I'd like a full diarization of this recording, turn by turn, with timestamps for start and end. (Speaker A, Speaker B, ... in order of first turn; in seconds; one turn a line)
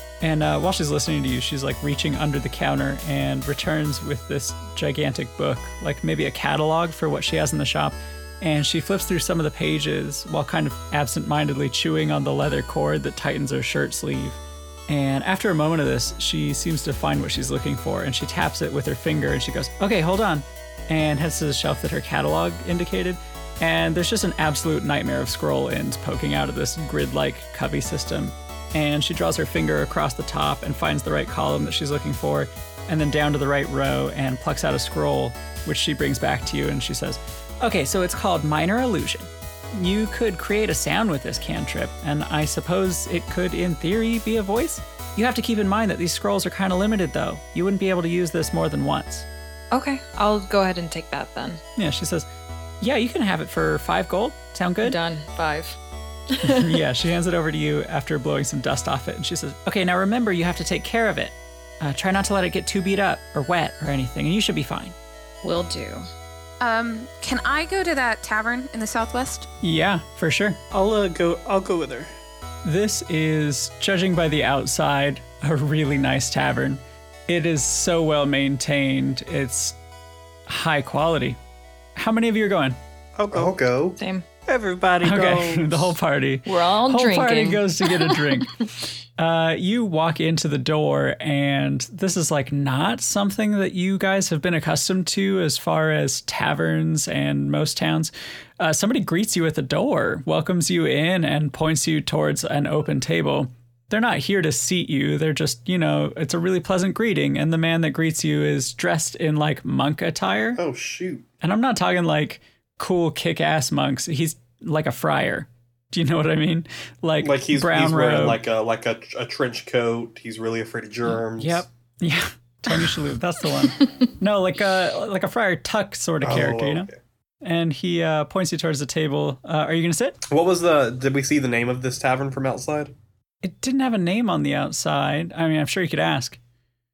Speaker A: 0.2-49.2
Speaker B: 49.7-51.6
Speaker A: 51.8-52.3
Speaker A: 52.8-55.0
Speaker B: 54.8-55.8
Speaker B: 56.3-56.8
Speaker A: 56.4-64.9
Speaker B: 65.4-66.0
Speaker C: 66.6-69.5
Speaker A: 69.6-70.6
Speaker D: 70.7-72.1
Speaker A: 72.6-79.8
Speaker A: 80.5-81.4
Speaker A: 82.0-82.8
Speaker D: 83.2-83.5
Speaker E: 83.3-84.0
Speaker B: 84.0-84.2
Speaker D: 84.5-85.9
Speaker A: 85.0-88.6
Speaker B: 86.5-88.4
Speaker A: 89.2-110.6
Speaker E: 110.6-111.2
Speaker A: 111.4-118.4
Speaker E: 117.2-121.7
Speaker A: 121.3-126.9
Speaker E: 126.2-127.0
Speaker A: 127.4-130.2
Speaker E: 130.3-132.9
Speaker A: 133.4-136.4